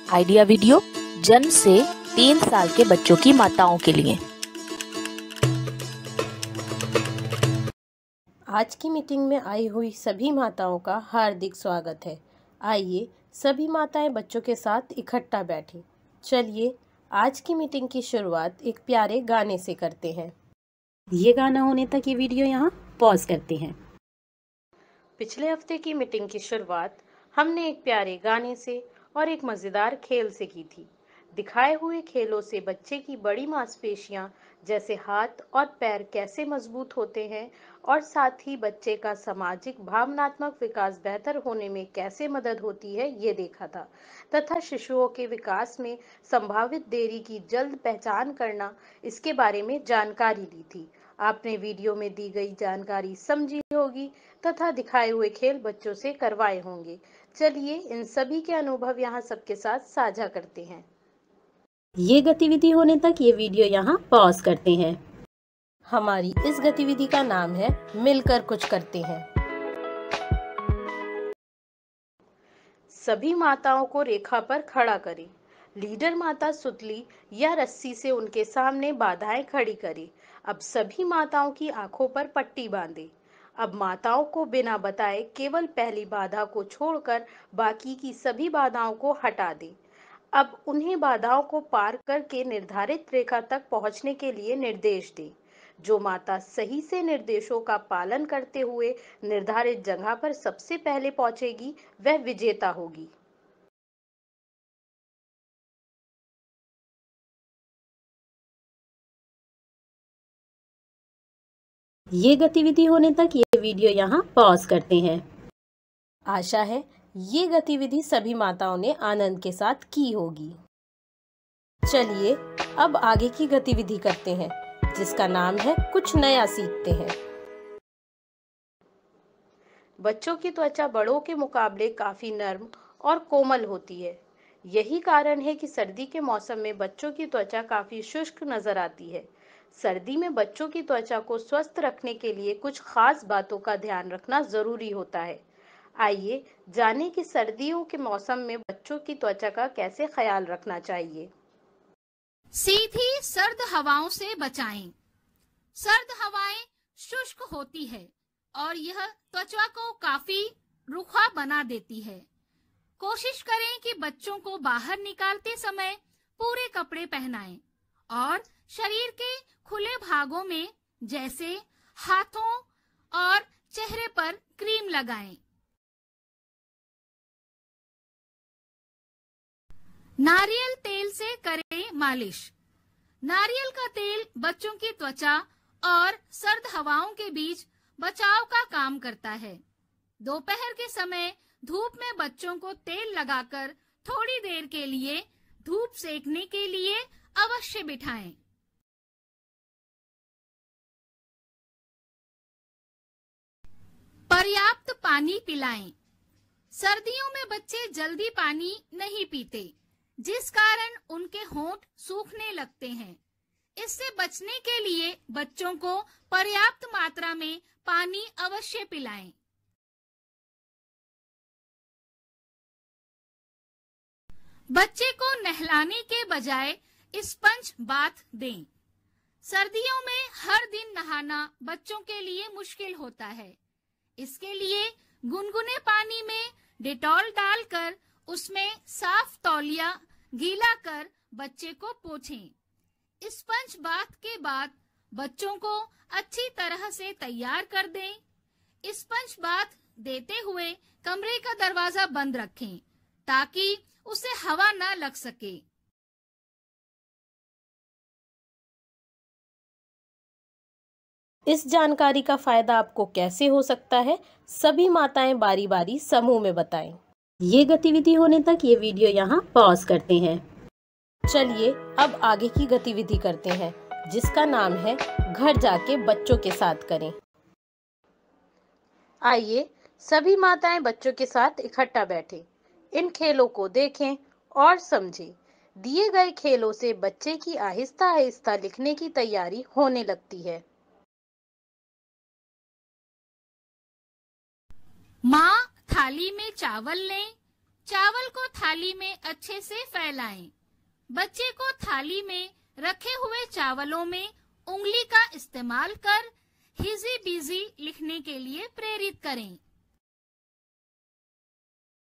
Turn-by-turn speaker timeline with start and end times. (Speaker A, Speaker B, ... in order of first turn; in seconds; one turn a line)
Speaker A: 0.1-4.2
Speaker B: 8.5-20.3
Speaker C: 21.2-23.8
Speaker B: 25.2-60.9
Speaker C: 62.0-65.0
Speaker B: 65.9-69.3
Speaker B: 72.9-89.8
Speaker B: 90.3-103.1
Speaker C: 112.2-115.2
Speaker B: 116.3-120.6
Speaker B: 121.9-127.2
Speaker B: 130.0-145.4
Speaker B: 146.0-151.3
Speaker D: 152.5-154.9
Speaker D: 155.8-162.2
Speaker D: 163.0-175.4
Speaker D: 180.2-182.5
Speaker D: 183.2-189.6
Speaker D: 190.2-198.4
Speaker D: 204.3-205.9
Speaker D: 206.7-213.2
Speaker D: 213.8-219.3
Speaker D: 224.7-228.7
Speaker D: 229.4-233.6
Speaker D: 234.2-242.5
Speaker D: 243.2-248.2
Speaker D: 248.8-255.6
Speaker B: 261.5-267.0
Speaker C: 267.4-270.4
Speaker B: 271.3-277.1
Speaker B: 279.2-290.6
Speaker D: 295.2-297.3
Speaker D: 297.9-300.5
Speaker D: 301.1-309.6